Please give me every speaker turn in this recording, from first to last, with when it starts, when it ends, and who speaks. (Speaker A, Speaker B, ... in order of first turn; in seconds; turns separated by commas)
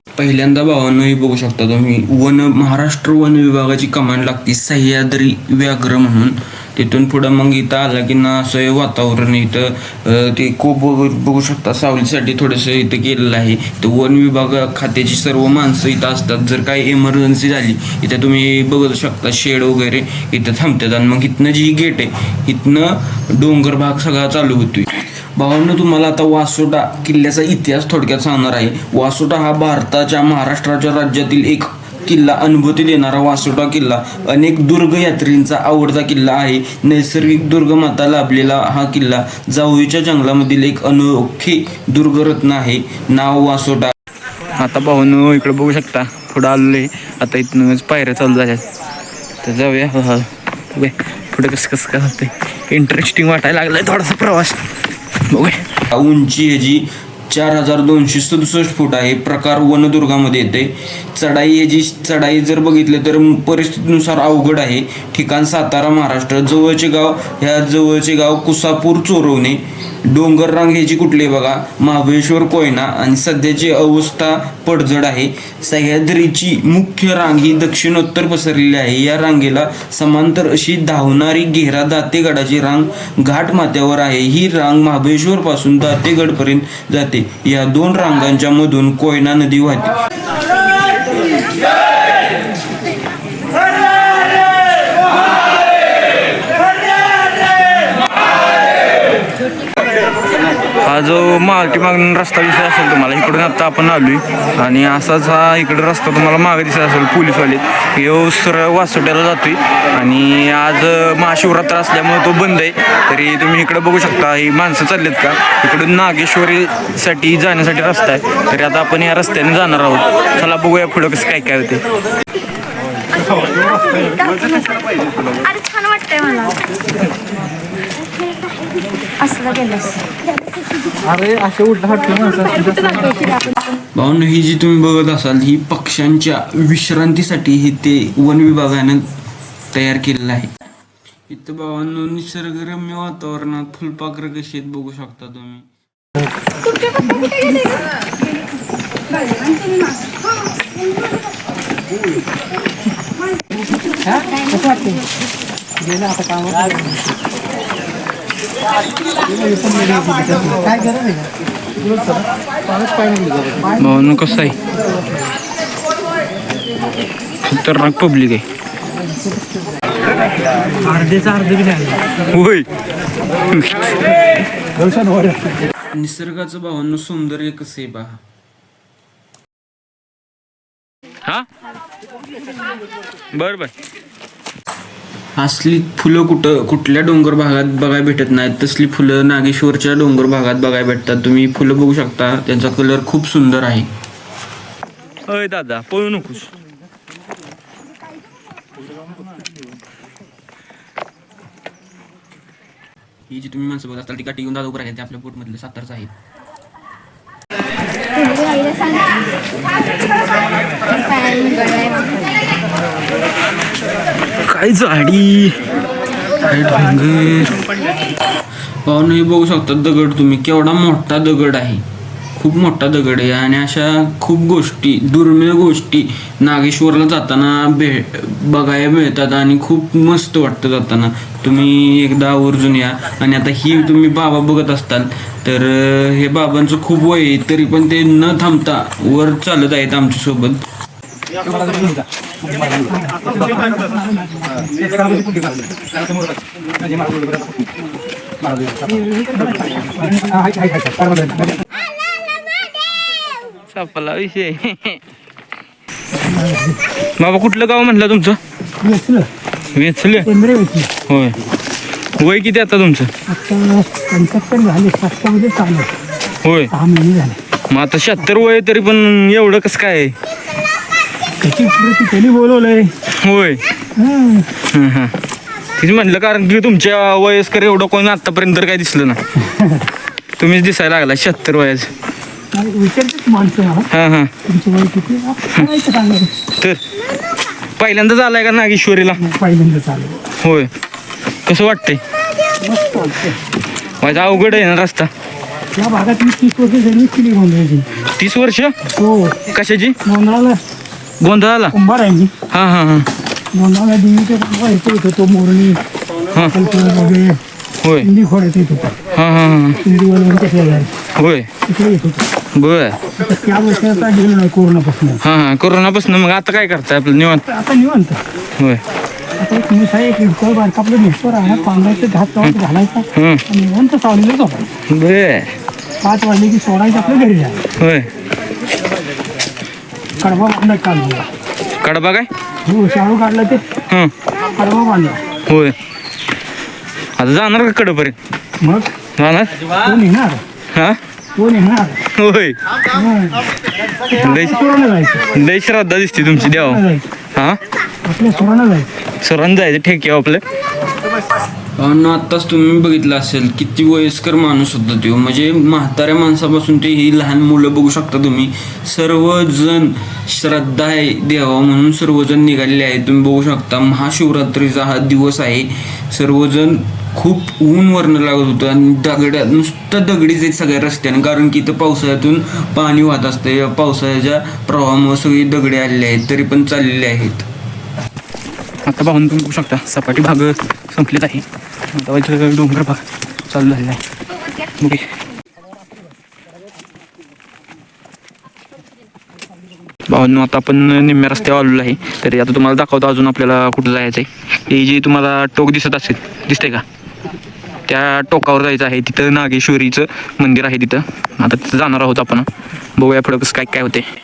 Speaker A: 0.2-43.9, Speaker B: 44.6-48.7, Speaker B: 49.4-54.6, Speaker B: 55.3-55.6, Speaker A: 55.9-90.0, Speaker B: 100.8-121.8, Speaker C: 123.2-126.7, Speaker C: 128.2-128.6, Speaker C: 129.2-130.0, Speaker C: 131.1-133.6, Speaker A: 133.9-139.1, Speaker A: 139.7-140.5, Speaker A: 141.3-145.7, Speaker D: 154.5-154.9, Speaker D: 156.0-156.6, Speaker D: 159.5-161.0, Speaker A: 163.8-164.6, Speaker B: 167.5-168.4, Speaker D: 171.0-171.7, Speaker B: 172.3-172.7, Speaker B: 173.5-173.9, Speaker D: 174.8-175.4, Speaker A: 175.9-178.2, Speaker B: 183.3-183.7, Speaker A: 185.4-193.9, Speaker B: 195.3-196.5, Speaker A: 203.3-206.1, Speaker C: 208.2-209.1, Speaker C: 210.9-212.2, Speaker A: 214.5-215.6, Speaker A: 216.4-217.6, Speaker A: 218.8-221.8, Speaker A: 222.4-240.6, Speaker D: 242.9-245.0, Speaker D: 248.8-251.3, Speaker C: 250.7-251.4, Speaker B: 253.7-255.0, Speaker D: 256.2-256.8, Speaker B: 257.2-258.4, Speaker D: 258.8-259.3, Speaker B: 259.7-260.3, Speaker D: 260.2-260.9, Speaker B: 261.1-261.4, Speaker B: 262.2-263.1, Speaker D: 263.3-265.9, Speaker B: 266.4-266.7, Speaker D: 266.7-267.4, Speaker B: 267.7-270.1, Speaker D: 271.4-272.9, Speaker B: 273.2-273.6, Speaker D: 274.0-274.5, Speaker B: 274.6-275.1, Speaker B: 275.8-279.2, Speaker D: 279.4-279.9, Speaker B: 280.4-281.9, Speaker D: 282.5-283.9, Speaker B: 283.9-284.3, Speaker D: 284.4-286.3, Speaker B: 287.8-289.2, Speaker D: 289.2-290.2, Speaker B: 290.4-290.7, Speaker B: 291.5-292.0, Speaker D: 292.6-293.4, Speaker B: 294.0-295.1, Speaker D: 295.7-297.9, Speaker B: 298.1-298.8, Speaker D: 298.9-299.4, Speaker B: 299.5-300.0, Speaker D: 300.1-300.6, Speaker B: 301.2-301.8, Speaker D: 301.7-302.3, Speaker B: 302.5-303.1, Speaker D: 303.5-305.8, Speaker D: 306.4-307.4, Speaker B: 307.8-308.1, Speaker D: 308.0-309.0, Speaker B: 309.1-309.8, Speaker D: 309.8-310.9, Speaker B: 311.2-311.5, Speaker D: 311.7-312.3, Speaker B: 312.5-313.0, Speaker D: 313.2-315.2, Speaker B: 315.2-317.4, Speaker D: 317.5-318.2, Speaker B: 318.6-318.8, Speaker D: 319.4-324.7, Speaker B: 323.1-323.4, Speaker B: 324.9-325.6, Speaker D: 326.0-327.6, Speaker B: 327.8-328.1, Speaker D: 330.2-331.3, Speaker B: 331.8-332.3, Speaker D: 332.6-333.6, Speaker D: 334.6-335.2, Speaker B: 335.5-335.8, Speaker B: 337.2-338.2, Speaker D: 338.6-338.9, Speaker B: 339.2-339.6, Speaker D: 339.8-340.4, Speaker B: 340.7-341.0, Speaker D: 341.4-342.0, Speaker B: 342.1-342.6, Speaker D: 342.9-343.4, Speaker B: 344.1-344.6, Speaker D: 344.2-345.3, Speaker B: 345.3-346.8, Speaker D: 346.3-347.1, Speaker D: 348.1-348.9, Speaker B: 349.2-350.4, Speaker A: 351.8-377.5, Speaker B: 378.8-384.0, Speaker B: 384.7-385.1, Speaker B: 390.1-396.8, Speaker B: 397.9-404.1